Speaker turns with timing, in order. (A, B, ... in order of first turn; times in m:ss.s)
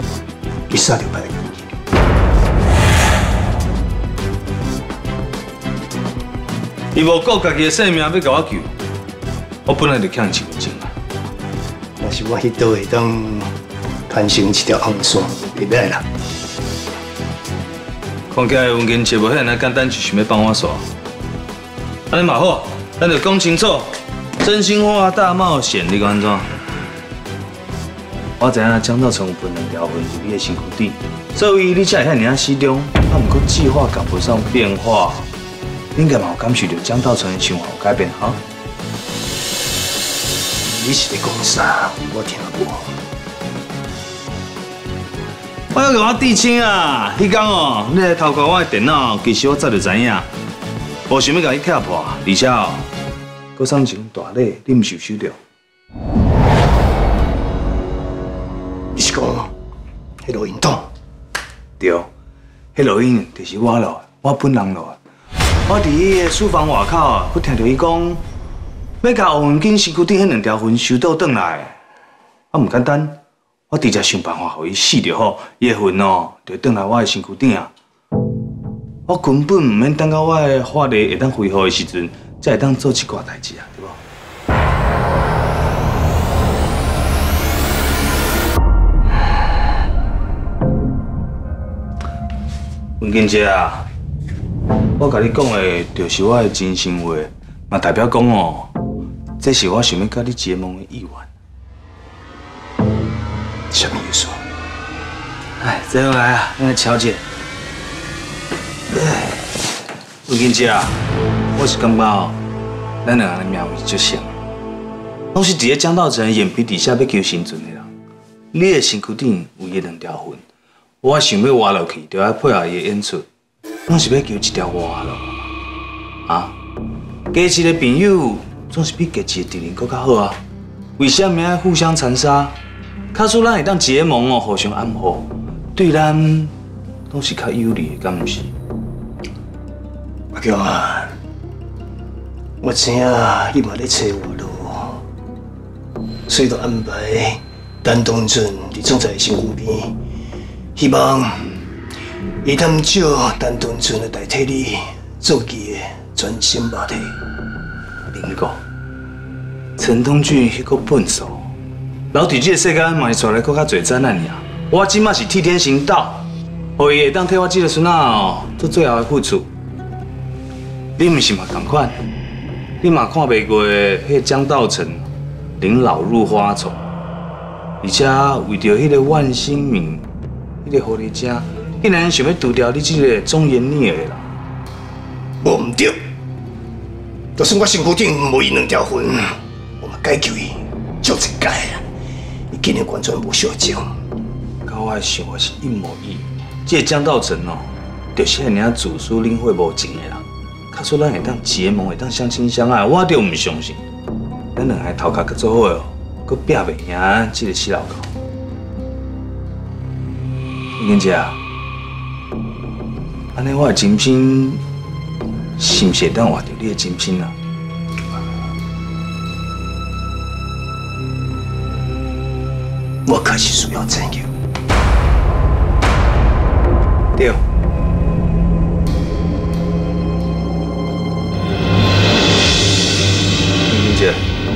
0:00.7-0:01.6 A
0:06.9-0:08.7 B
0:09.6-0:10.9 B
0:12.0-0:13.5 A
0:14.1-0:16.0 A
0:18.3-0:20.9 B
0:22.1-0:26.5 B
0:28.4-0:35.2 B
0:35.9-0:38.4 B
0:40.6-0:42.9 A
0:45.7-0:50.3 B
0:51.1-0:52.9 B
0:53.6-0:55.4 B
0:58.9-0:59.5 A
1:00.2-1:00.9 A
1:01.8-1:02.1 B
1:02.7-1:05.0 B
1:05.7-1:08.2 B
1:09.0-1:11.7 B
1:12.5-1:13.2 B
1:13.7-1:17.7 B
1:19.1-1:24.0 B
1:33.0-1:33.8 B
1:35.0-1:38.7 B
1:39.4-1:41.2 B
1:43.7-1:44.4 A
1:45.6-1:47.2 B
1:48.9-1:49.4 B
1:50.3-1:50.9 B
1:51.5-1:52.4 B
1:53.0-1:54.3 B
1:55.3-1:57.9 B
1:58.5-2:00.4 B
2:01.0-2:03.2 B
2:03.9-2:05.4 B
2:06.3-2:06.5 B
2:07.3-2:10.4 B
2:11.0-2:12.5 B
2:13.1-2:16.5 B
2:17.1-2:18.5 B
2:20.3-2:21.1 A
2:22.6-2:25.0 A
2:26.3-2:29.9 A
2:30.8-2:31.5 A
2:32.4-2:37.1 A
2:38.1-2:38.6 B
2:39.8-2:41.4 B
2:42.1-2:46.2 B
2:46.8-2:49.5 B
2:51.0-2:51.9 B
2:52.8-2:55.0 B
2:55.6-2:56.8 B
2:57.8-3:00.0 B
3:00.6-3:04.2 B
3:05.4-3:05.9 A
3:07.4-3:09.2 A
3:09.8-3:11.8 A
3:12.5-3:13.8 A
3:14.6-3:23.8 B
3:24.6-3:28.1 B
3:30.8-3:31.3 B
3:33.3-3:34.6 B
3:35.6-3:37.3 B
3:43.0-3:44.3 A
3:53.7-3:54.2 B